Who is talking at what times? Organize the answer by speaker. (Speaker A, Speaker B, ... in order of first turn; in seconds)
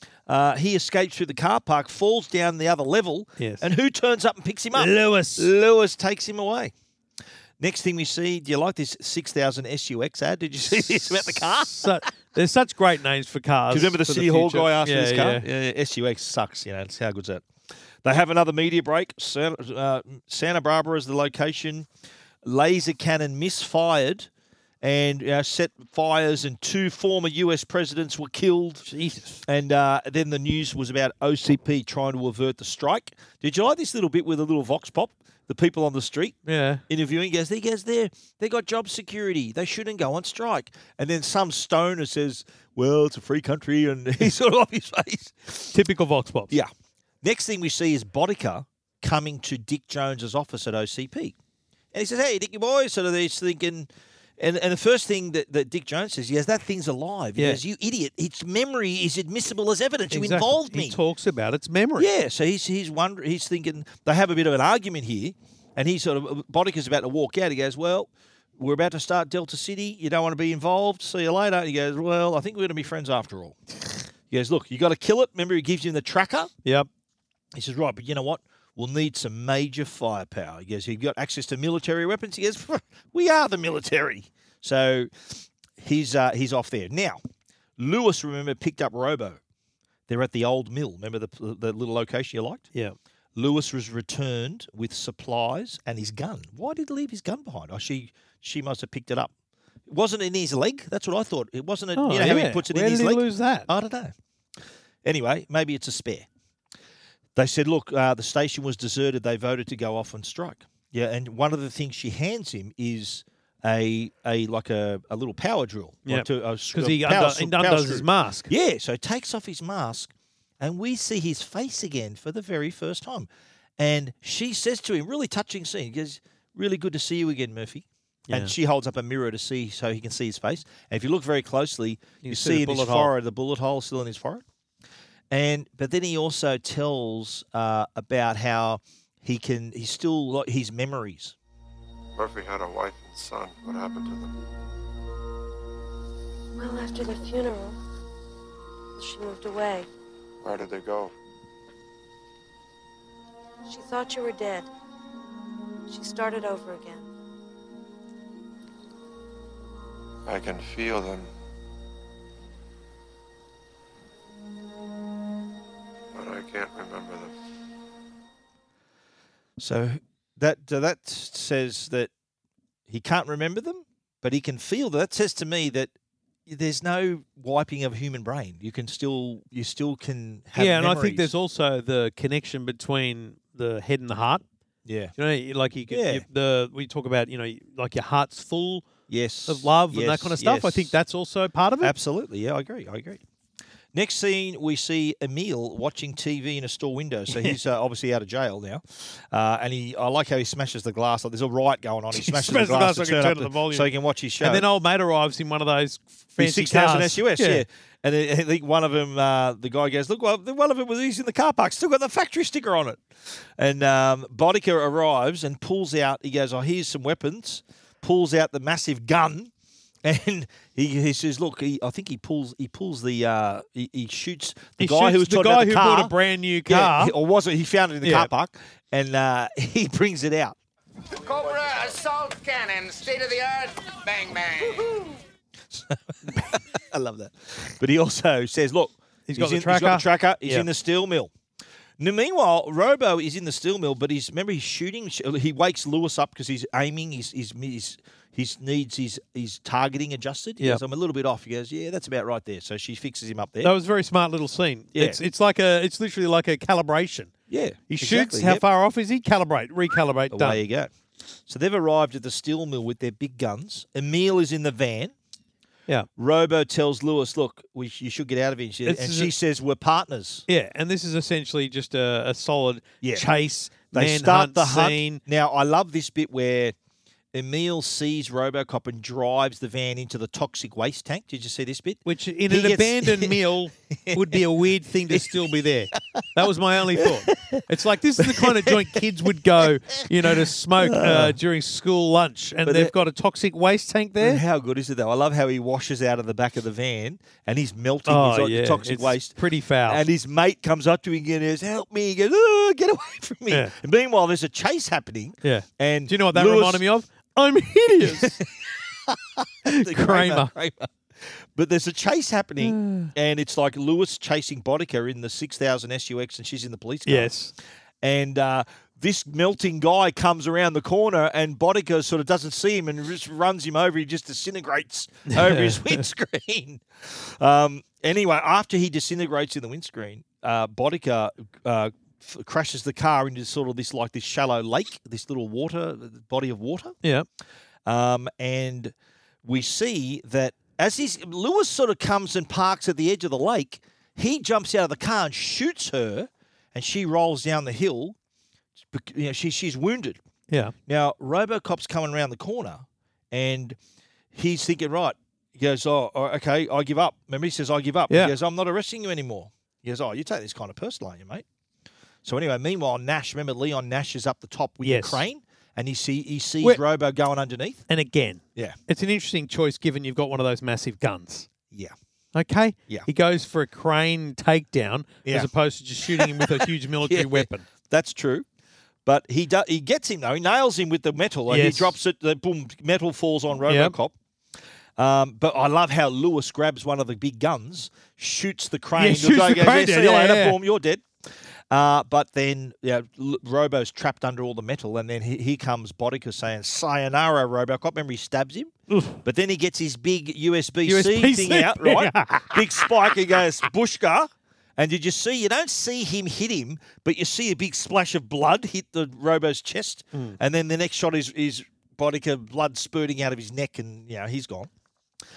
Speaker A: 0.3-6.7, 7.6-11.9, 13.7-17.4, 18.0-21.9, 22.4-24.3, 24.8-28.9, 29.4-36.4, 36.9-45.7, 47.2-51.4, 51.9-61.0, 62.0-73.6, 74.3-76.5, 77.5-87.2, 87.8-89.4, 90.1-92.7, 93.3-99.3, 99.9-104.1, 105.0-106.3, 107.3-134.4, 135.3-141.3, 169.6-172.1, 172.9-175.9, 176.5-181.3, 184.8-185.1, 185.9-186.2, 189.1-190.9, 191.8-193.2, 193.9-204.6, 206.4-213.0, 213.6-219.5, 220.0-226.1, 226.7-230.6, 235.7-241.3, 242.0-253.7, 257.5-258.6, 260.3-260.9, 261.5-265.1, 266.1-270.4, 273.0-273.3, 273.9-276.7, 277.3-283.4, 284.0-284.4, 286.9-287.6, 288.2-291.4, 292.6-292.9, 294.2-299.3, 299.9-306.8, 308.0-308.5, 309.1-317.3, 318.0-336.9, 337.9-348.1, 348.9-350.2, 350.9-353.8, 354.3-361.4, 362.2-367.8, 376.1-378.4, 379.0-384.1, 385.0-414.7
Speaker B: 3.4-3.7, 4.7-5.5, 10.8-15.5, 28.8-29.4, 36.5-36.8, 45.7-46.5, 60.1-62.1, 102.0-103.7, 116.1-118.5, 128.3-128.5, 132.2-133.1, 180.6-184.4, 185.2-188.9, 189.5-191.9, 197.3-197.6, 202.1-207.6, 224.8-227.1, 228.0-228.3, 239.3-240.7, 253.6-257.3, 258.0-260.6, 268.9-269.3, 270.5-275.2, 282.0-294.4, 298.1-300.0, 303.5-303.7, 305.4-308.4, 309.7-310.5, 312.6-313.1, 317.1-317.5, 325.3-326.0, 350.5-350.7, 364.8-365.2, 367.9-371.5, 372.3-377.6, 381.5-381.9, 383.7-383.9, 388.9-390.6, 398.9-399.2, 400.9-403.1
Speaker C: 142.1-144.3, 150.4-151.1, 160.2-161.3, 166.1-167.3
Speaker D: 146.5-147.8, 148.9-149.9, 153.7-154.7, 155.9-157.1
Speaker E: 231.1-235.1